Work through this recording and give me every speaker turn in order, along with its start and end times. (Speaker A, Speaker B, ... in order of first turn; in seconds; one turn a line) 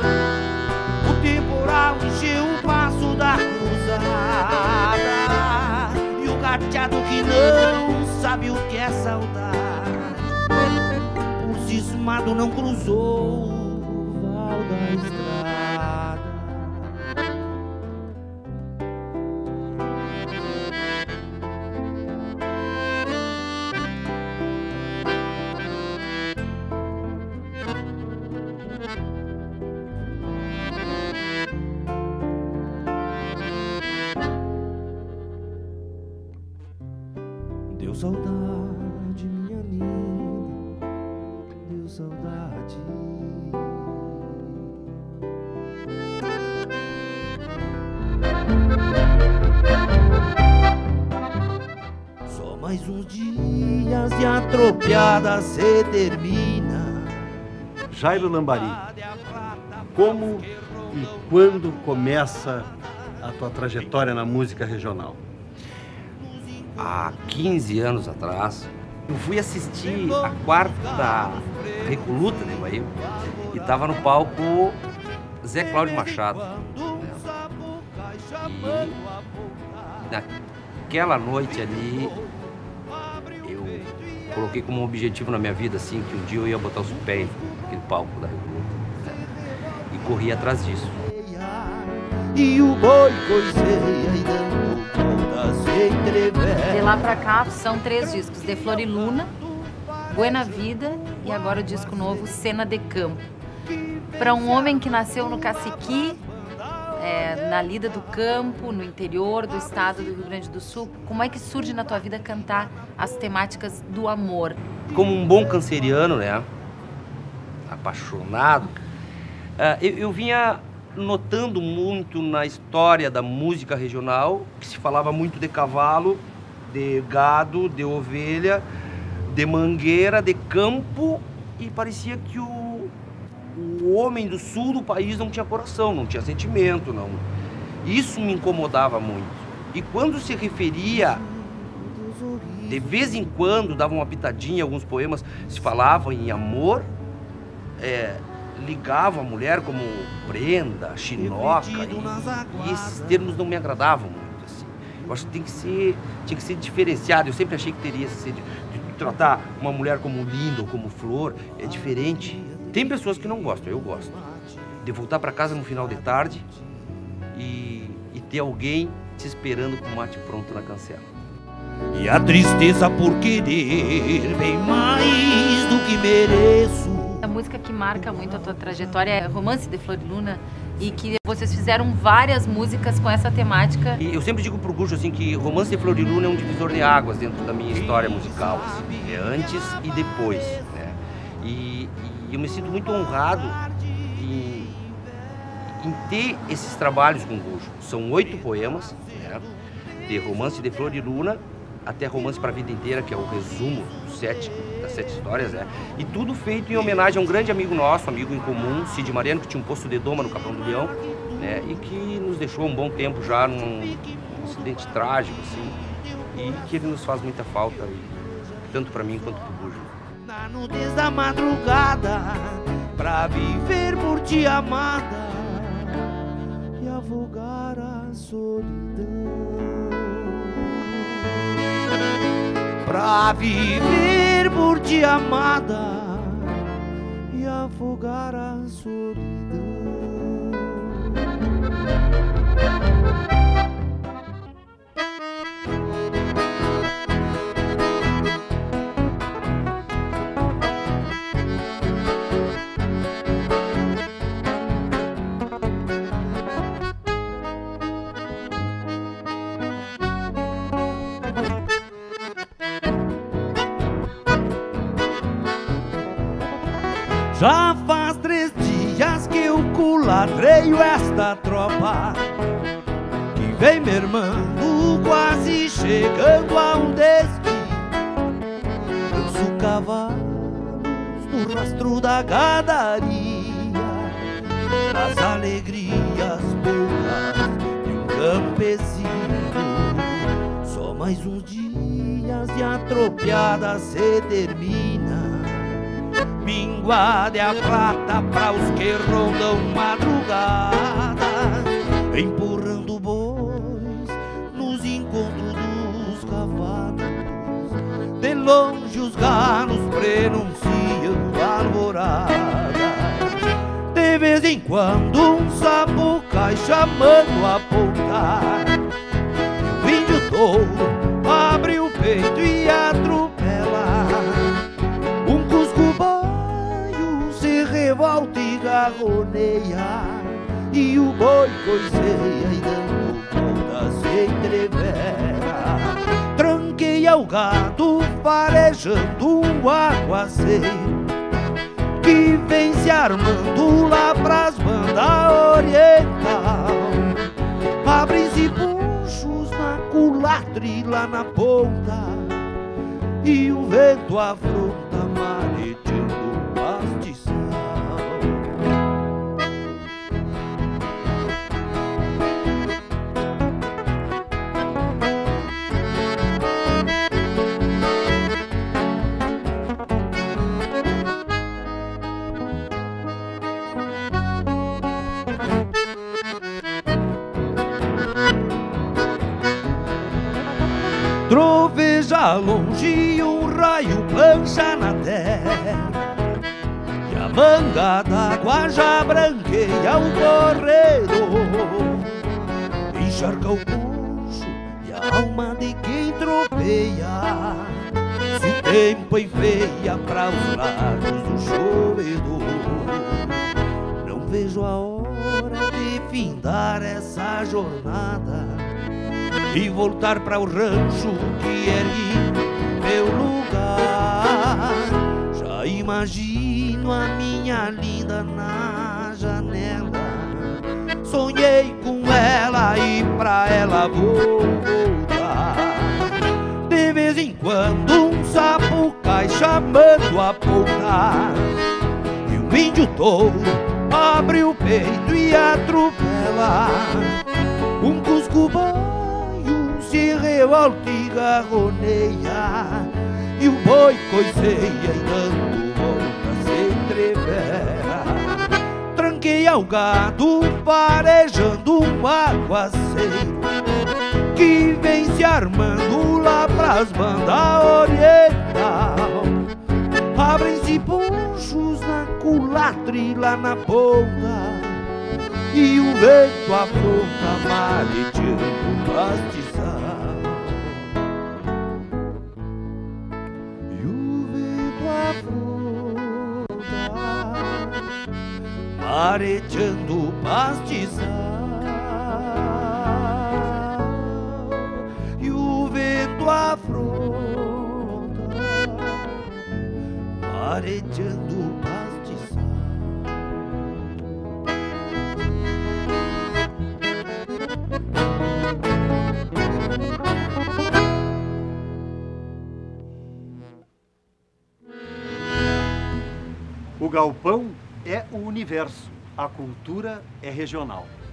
Speaker A: 1.0-10.3
Speaker A: 11.4-17.1
Speaker A: 37.7-40.6
Speaker A: 41.6-44.6
Speaker A: 52.3-57.3
Speaker B: 57.9-58.8
Speaker A: 58.1-62.0
Speaker B: 59.9-62.7
Speaker B: 63.2-65.2
Speaker A: 66.3-67.5
Speaker C: 66.8-72.9
Speaker A: 69.7-74.6
Speaker C: 73.5-74.8
Speaker C: 75.4-77.2
Speaker A: 75.5-80.2
Speaker C: 78.4-79.0
Speaker C: 80.0-80.3
Speaker C: 80.9-82.2
Speaker A: 81.3-82.3
Speaker A: 83.0-84.8
Speaker C: 83.4-89.2
Speaker A: 86.9-87.7
Speaker C: 89.9-91.0
Speaker A: 90.1-97.1
Speaker D: 96.7-99.3
Speaker A: 98.1-102.4
Speaker D: 100.1-103.2
Speaker A: 103.7-108.6
Speaker D: 104.2-106.2
Speaker D: 107.0-114.6
Speaker A: 109.2-112.3
Speaker C: 114.9-116.5
Speaker A: 115.3-115.8
Speaker C: 117.7-118.8
Speaker C: 119.6-128.7
Speaker C: 129.3-132.9
Speaker C: 133.5-137.2
Speaker C: 137.8-141.2
Speaker A: 140.8-143.3
Speaker C: 142.7-146.9
Speaker C: 147.8-164.2
Speaker A: 151.1-153.6
Speaker A: 155.0-155.6
Speaker A: 161.6-164.8
Speaker C: 164.8-166.4
Speaker A: 165.4-166.4
Speaker C: 167.3-171.1
Speaker A: 171.9-177.3
Speaker D: 177.2-184.0
Speaker C: 184.0-193.6
Speaker A: 187.7-190.7
Speaker A: 193.0-193.3
Speaker C: 194.1-194.8
Speaker C: 195.8-199.4
Speaker A: 198.1-199.5
Speaker C: 200.1-215.8
Speaker A: 200.1-200.8
Speaker A: 203.4-205.9
Speaker A: 206.7-209.4
Speaker A: 210.2-212.0
Speaker A: 212.9-226.2
Speaker C: 216.3-219.9
Speaker A: 226.8-231.6
Speaker A: 232.8-236.7
Speaker A: 237.3-241.3
Speaker A: 267.3-272.2
Speaker A: 273.3-277.9
Speaker A: 279.1-284.2
Speaker A: 284.9-295.9
Speaker A: 296.4-313.4
Speaker A: 313.9-318.8
Speaker A: 319.6-324.6
Speaker A: 325.2-341.1
Speaker A: 342.0-347.2
Speaker A: 347.8-352.4
Speaker A: 353.2-358.4
Speaker A: 381.3-386.0
Speaker A: 387.0-392.2
Speaker A: 392.9-403.4
Speaker A: 404.0-408.7
Speaker A: 409.5-431.5
Speaker A: 432.2-437.2
Speaker A: 437.8-453.6
Speaker A: 454.3-459.4
Speaker A: 460.1-464.8
Speaker A: 465.5-470.9
Speaker A: 473.7-477.9
Speaker A: 478.7-489.3
Speaker A: 490.2-493.6
Speaker B: 506.8-510.9